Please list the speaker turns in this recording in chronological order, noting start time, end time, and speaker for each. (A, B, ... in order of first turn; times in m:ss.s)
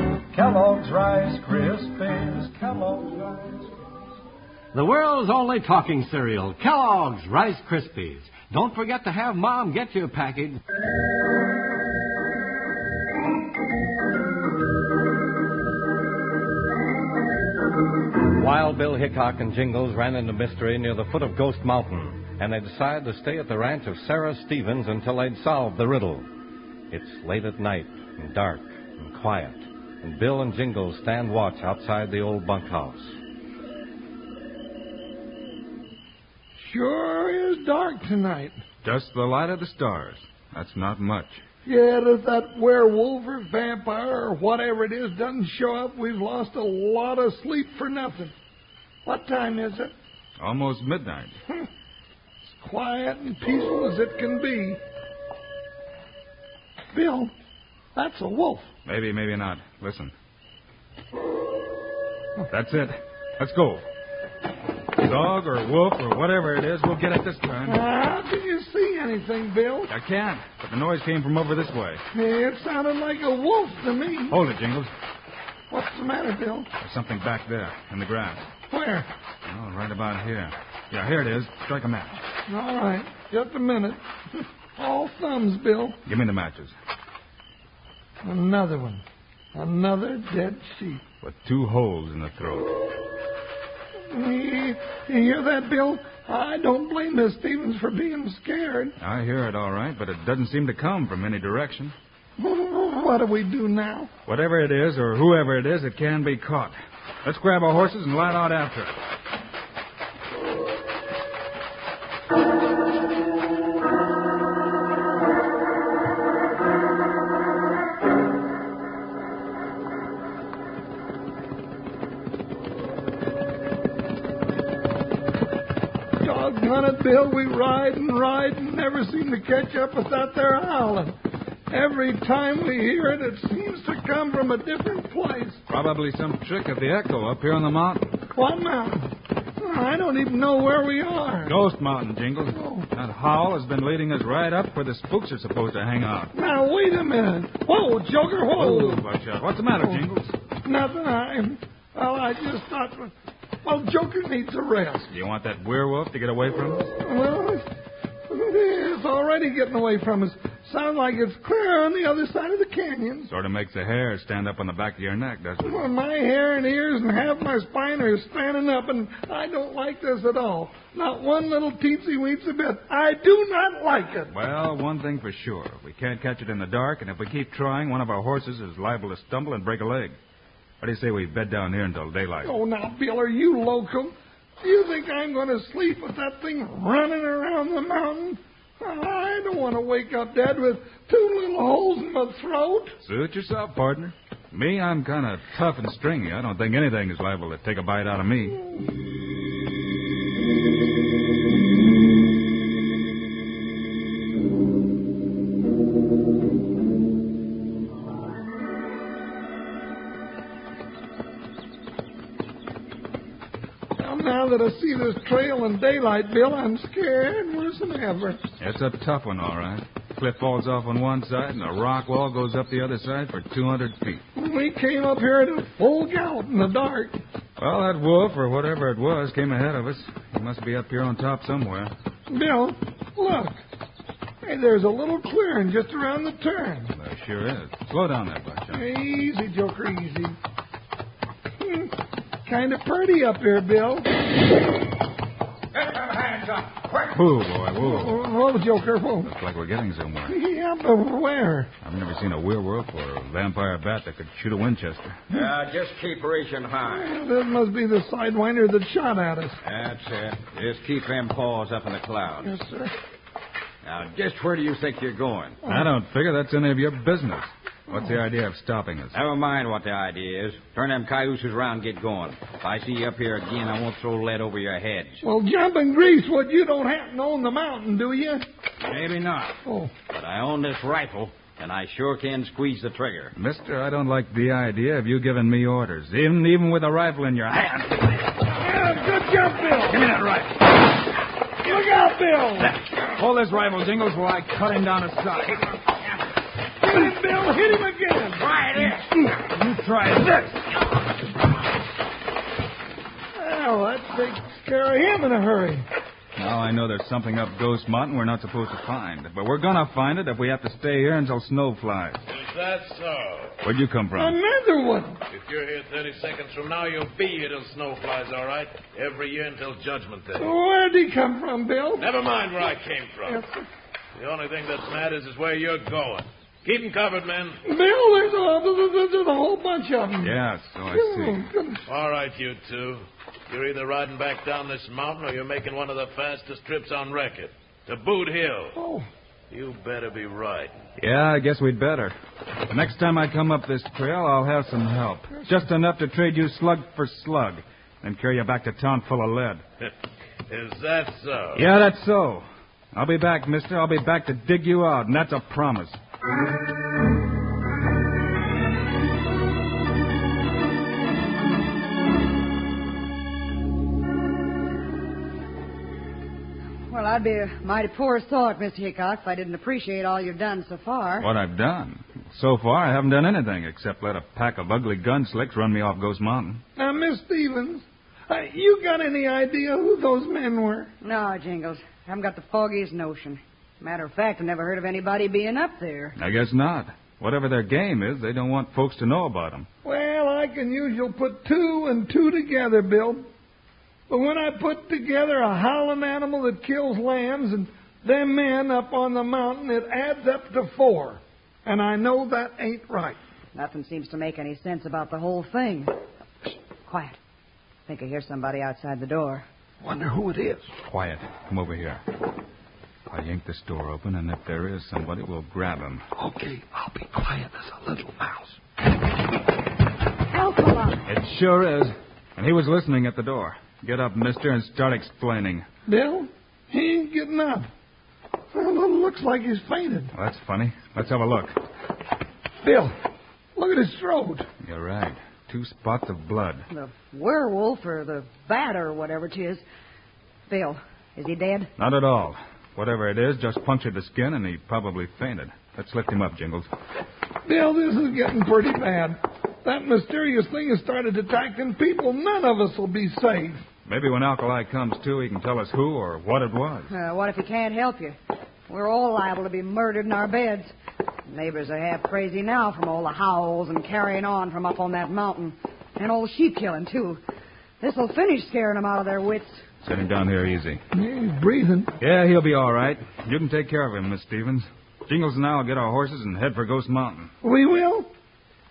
0:00.3-0:03.8 A
0:04.7-0:10.6 B
0:18.3-0:26.3 B
0:26.9-0:33.2 B
0:36.6-0:38.6 C
0:38.8-0:41.4 D
0:41.6-0:48.3 C
0:49.0-0:49.9 C
0:50.4-0:51.4 D
0:52.6-0:54.8 C
0:56.9-0:57.3 C
0:58.0-0:58.7 C
0:58.9-1:00.1 D
1:02.5-1:03.8 D
1:05.0-1:07.8 D
1:07.7-1:09.9 C
1:09.9-1:12.0 D
1:12.1-1:14.4 C
1:14.3-1:14.9 D
1:15.7-1:16.7 C
1:16.8-1:18.5 D
1:18.7-1:19.1 C
1:19.5-1:22.2 D
1:22.5-1:26.0 C
1:26.1-1:26.8 D
1:28.2-1:29.0 C
1:29.5-1:31.0 C
1:31.2-1:32.7 D
1:34.1-1:39.0 C
1:39.0-1:41.9 D
1:42.4-1:44.1 C
1:44.3-1:49.0 D
2:06.2-2:11.2 C
2:11.7-2:15.6 C
2:15.7-2:18.2 D
2:18.3-2:21.6 C
2:21.4-2:26.3 D
2:22.5-2:22.9 C
2:26.3-2:29.0 C
2:28.6-2:30.3 D
2:30.6-2:33.1 C
2:33.6-2:35.1 C
2:35.1-2:36.9 D
2:37.0-2:37.7 C
2:38.3-2:43.3 C
2:43.3-2:45.8 D
2:45.6-2:54.3 C
2:54.3-3:00.2 D
3:00.8-3:02.5 D
3:02.4-3:13.0 C
3:13.0-3:18.6 D
3:34.0-3:38.4 C
3:38.6-3:44.2 D
3:44.4-3:47.2 C
3:47.6-3:51.9 D
3:52.3-3:53.6 C
3:54.4-3:56.9 C
3:57.0-3:58.8 D
3:58.7-4:00.4 C
4:01.6-4:01.9 C
4:02.4-4:04.1 C
4:05.7-4:07.2 E
4:07.1-4:08.2 D
4:07.8-4:09.3 C
4:09.2-4:10.4 D
4:10.3-4:11.7 C
4:11.8-4:15.2 D
4:15.3-4:17.1 E
4:16.9-4:19.6 C
4:19.6-4:22.5 E
4:22.4-4:23.0 C
4:23.8-4:25.6 E
4:25.6-4:29.2 D
4:29.1-4:35.2 E
4:35.2-4:38.4 C
4:38.8-4:43.3 E
4:39.6-4:39.9 C
4:43.4-4:48.4 D
4:48.5-4:50.0 C
4:49.9-4:50.8 D
4:51.6-4:52.8 C
4:52.6-4:55.7 D
4:56.8-4:58.5 C
4:58.4-4:59.0 E
4:59.4-5:00.7 D
5:03.4-5:05.8 C
5:06.4-5:12.2 D
5:12.3-5:13.6 F
5:13.6-5:14.4 D
5:14.2-5:15.2 C
5:15.3-5:20.5 F
5:20.4-5:22.1 C
5:22.0-5:23.4 F
5:23.3-5:23.5 C
5:24.2-5:27.6 F
5:27.6-5:30.3 C
5:30.2-5:31.4 D
5:30.9-5:31.8 C
5:31.9-5:38.8 F
5:38.8-5:39.1 C
5:39.5-5:40.7 F
5:41.0-5:42.1 D
5:42.7-5:49.6 D
5:50.5-5:51.7 F
5:51.6-5:56.0 D
6:06.9-6:11.3 G
6:11.2-6:16.6 D
6:16.8-6:20.9 C
6:21.0-6:26.2 G
6:26.2-6:29.7 D
6:29.8-6:33.3 C
6:34.1-6:43.2 C
6:43.6-6:45.9 G
6:46.9-6:47.2 G
6:47.9-6:49.4 G
6:49.8-6:50.7 C
6:50.9-6:52.0 D
6:53.1-6:56.0 D
6:56.2-6:58.6 C
7:00.3-7:01.0 G
7:01.1-7:05.7 D
7:05.9-7:07.7 C
7:08.5-7:10.1 C
7:10.1-7:11.6 D
7:12.6-7:13.0 C
7:13.6-7:14.5 C
7:14.6-7:16.7 D
7:16.7-7:19.6 G
7:20.5-7:21.7 G
7:21.8-7:26.7 D
7:27.4-7:33.6 C
7:33.9-7:36.9 D
7:36.9-7:38.2 G
7:38.7-7:40.7 G
7:41.3-7:47.2 G
7:47.8-7:49.6 G
7:49.8-7:50.8 D
7:50.9-7:51.9 C
7:52.0-7:57.3 D
7:57.4-7:58.1 C